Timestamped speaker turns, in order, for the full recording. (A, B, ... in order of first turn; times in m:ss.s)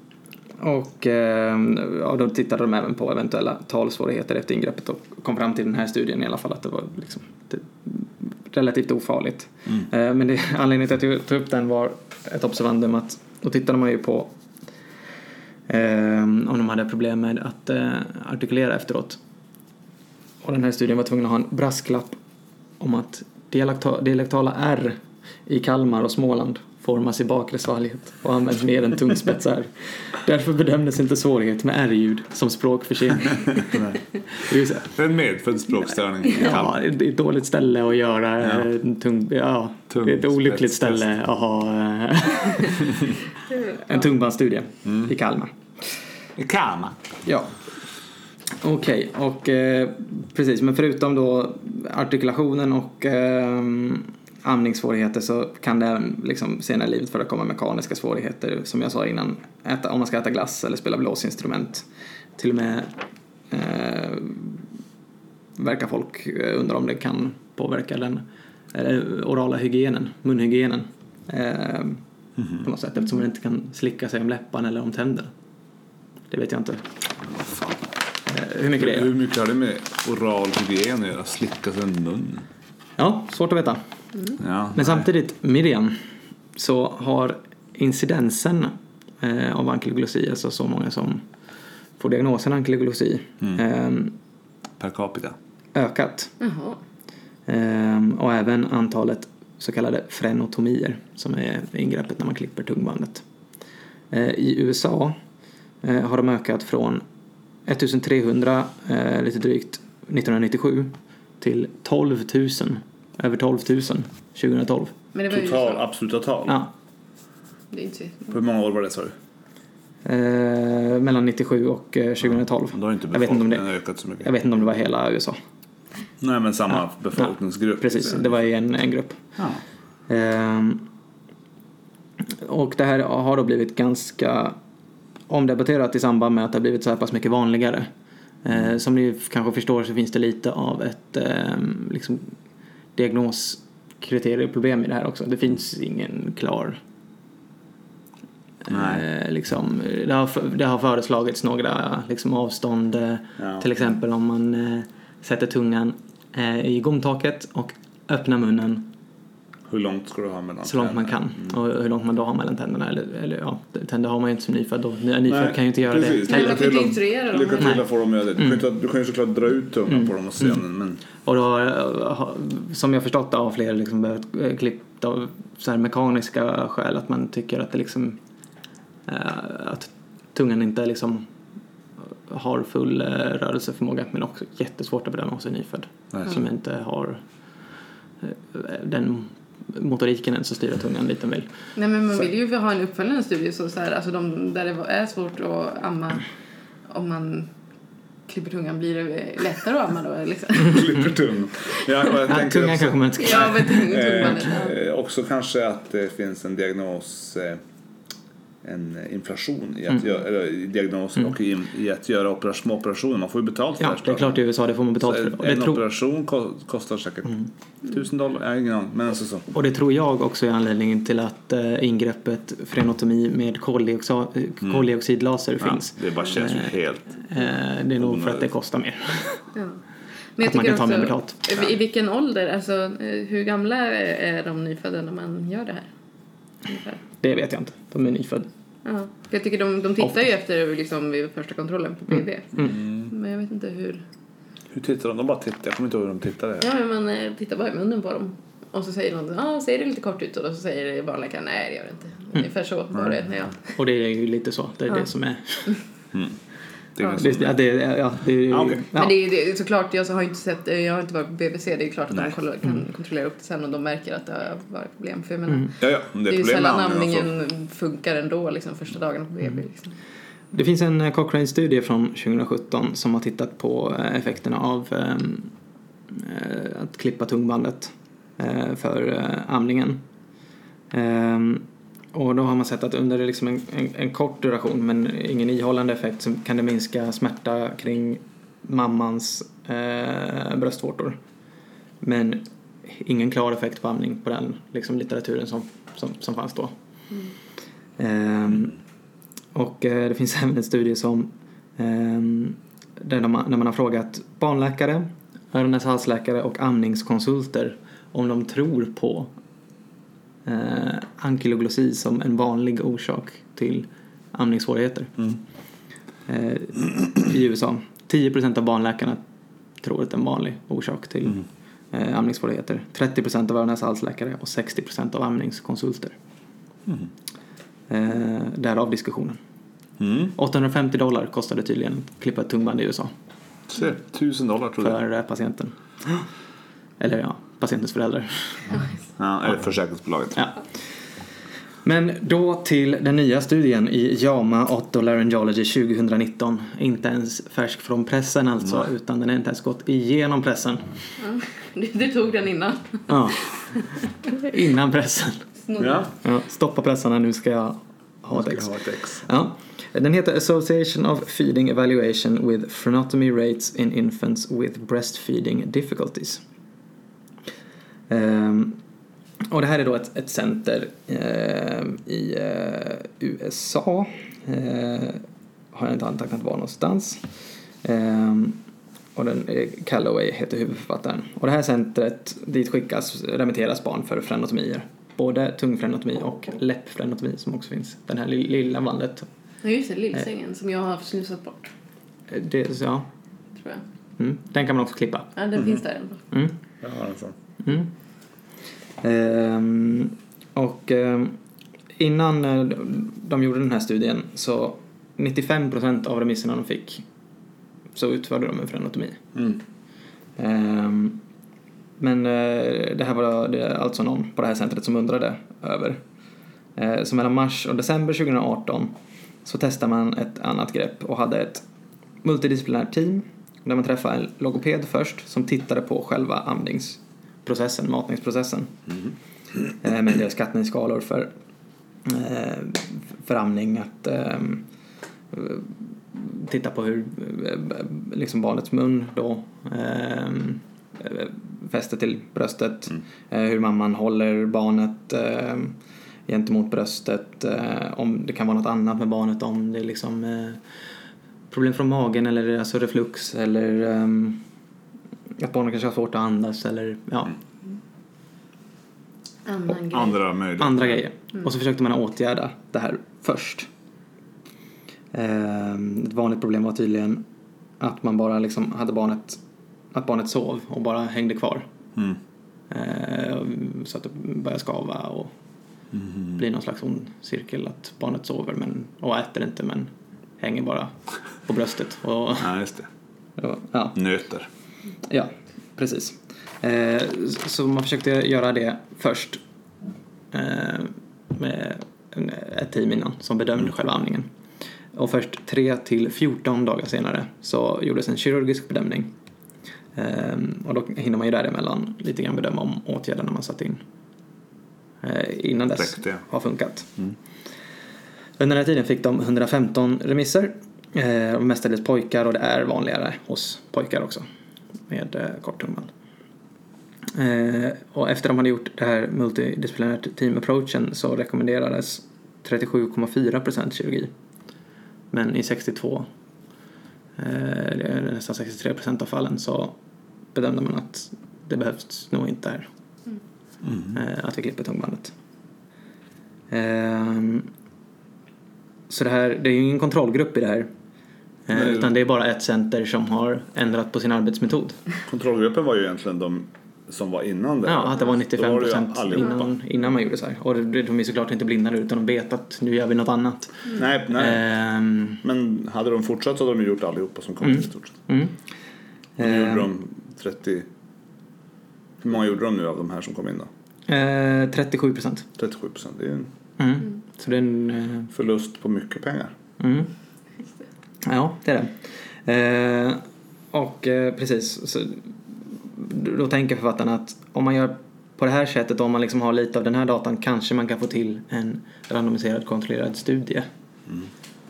0:00.6-0:14.3 A
0:15.7-0:19.2 A
0:20.4-0:22.2 A
0:22.8-0:33.8 A
0:33.5-0:36.8 B
0:34.4-0:34.9 A
0:36.3-0:43.1 A
0:39.9-0:41.1 B
0:43.7-0:45.5 A
0:44.8-0:45.1 B
0:46.4-0:47.0 B
0:47.2-0:47.5 A
0:48.6-1:02.9 A
1:03.5-1:04.6 A
1:05.6-1:12.0 A
1:12.4-1:12.6 B
1:12.6-1:15.3 A
1:16.3-1:16.9 A
1:18.3-1:19.1 A
1:18.8-1:22.4 B
1:23.0-1:23.8 A
1:24.4-1:25.0 B
1:24.7-1:26.0 A
1:26.6-1:31.2 A
1:32.0-1:34.1 A
1:34.8-1:35.4 B
1:35.7-1:36.3 A
1:36.4-1:36.8 C
1:37.5-1:43.2 A
1:44.1-1:45.2 A
1:45.8-1:47.0 A
1:47.6-1:54.9 A
1:55.1-1:55.8 C
1:55.3-1:56.6 B
1:57.7-1:58.3 C
1:58.3-1:59.1 B
2:00.0-2:03.6 A
2:02.2-2:04.3 B
2:04.2-2:05.4 A
2:06.2-2:08.4 B
2:07.8-2:09.2 A
2:10.1-2:10.9 A
2:12.3-2:14.6 A
2:15.3-2:17.9 A
2:18.4-2:22.3 A
2:23.0-2:26.8 A
2:28.6-2:38.9 A
2:28.7-2:29.0 B
2:33.4-2:33.6 B
2:39.7-2:41.5 B
2:40.6-2:46.6 A
2:45.2-2:51.0 B
2:46.2-2:47.8 C
2:49.9-2:50.6 A
2:51.2-2:58.2 A
2:59.0-3:01.2 A
3:02.1-3:07.2 A
3:08.2-3:11.5 A
3:11.8-3:16.2 C
3:16.9-3:17.5 C
3:18.3-3:20.9 C
3:20.6-3:27.6 B
3:22.2-3:23.9 A
3:23.2-3:24.7 C
3:28.6-3:34.4 B
3:33.8-3:35.8 A
3:35.0-3:39.5 B
3:39.5-3:49.4 A
3:45.6-3:47.2 B
3:48.0-3:48.5 B
3:49.5-3:49.8 C
3:50.4-3:55.9 C
3:50.4-3:51.4 A
3:56.6-3:57.0 C
3:57.2-3:58.5 A
3:58.8-4:04.0 C
4:02.6-4:03.1 B
4:04.7-4:06.7 B
4:06.6-4:13.7 C
4:13.8-4:15.7 A
4:17.0-4:17.6 B
4:17.2-4:19.2 A
4:18.4-4:18.8 B
4:18.9-4:29.9 C
4:25.8-4:27.3 B
4:30.5-4:35.5 A
4:36.1-4:40.0 A
4:40.9-4:51.2 A
4:52.0-4:56.7 A
4:58.0-4:58.8 A
4:59.5-5:09.3 A
5:10.4-5:15.1 A
5:16.3-5:19.2 A
5:19.8-5:21.4 A
5:21.9-5:26.1 A
5:27.9-5:29.4 A
5:30.0-5:30.3 B
5:30.4-5:33.1 A
5:33.7-5:35.0 B
5:34.8-5:36.2 A
5:37.0-5:38.6 A
5:39.2-5:40.5 B
5:41.8-5:50.8 A
5:51.2-5:53.3 C
5:53.1-5:53.4 A
5:54.3-5:55.4 A
5:55.6-5:56.1 C
5:55.8-5:56.1 B
5:56.2-6:06.4 A
5:58.3-5:59.3 B
6:08.1-6:08.8 A
6:09.4-6:17.2 A
6:17.8-6:18.6 A
6:19.1-6:29.3 A
6:29.6-6:31.7 C
6:32.3-6:33.1 A
6:33.6-6:33.8 C
6:34.2-6:35.3 A
6:35.4-6:36.2 C
6:36.8-6:37.3 B
6:37.6-6:37.9 A
6:39.0-6:41.4 A
6:42.0-6:47.0 A
6:47.9-6:49.3 A
6:50.4-6:51.2 A
6:52.0-6:56.0 A
6:56.8-7:01.6 A
7:02.2-7:08.7 A
7:09.8-7:11.3 A
7:12.0-7:14.6 A
7:15.3-7:25.7 A
7:26.3-7:30.6 A
7:31.5-7:34.4 A
7:35.4-7:37.4 A
7:39.4-7:40.2 C
7:39.9-7:41.0 B
7:40.6-7:43.7 A
7:45.1-7:47.2 A
7:47.8-7:49.4 A
7:49.9-7:51.7 A
7:52.7-7:55.3 A
7:55.9-7:56.4 B
7:56.4-8:00.9 A
8:01.4-8:02.5 A
8:02.4-8:02.9 B
8:03.4-8:04.0 A
8:03.9-8:04.5 B
8:05.1-8:09.4 A
8:10.3-8:14.3 A
8:14.9-8:19.1 A
8:19.9-8:23.8 A
8:25.0-8:26.9 A
8:25.8-8:26.2 B
8:28.4-8:34.2 A
8:34.9-8:35.9 A
8:37.1-8:44.1 A
8:45.1-8:46.1 A
8:47.2-8:49.8 A
8:50.3-8:52.7 A
8:53.6-8:54.0 B
8:53.9-8:55.1 A
8:56.5-8:57.5 A
8:58.9-9:00.7 A
9:01.5-9:04.8 A
9:01.5-9:01.9 B
9:05.1-9:09.5 B
9:07.6-9:15.2 A
9:13.7-9:14.4 B
9:15.2-9:18.0 B
9:17.4-9:18.3 A
9:19.2-9:19.6 A
9:19.2-9:20.7 B
9:22.0-9:23.5 B
9:23.9-9:25.3 A
9:25.4-9:26.3 B
9:26.6-9:28.1 A
9:28.1-9:29.3 B
9:29.6-9:29.9 A
9:31.0-9:31.7 A
9:32.2-9:43.5 A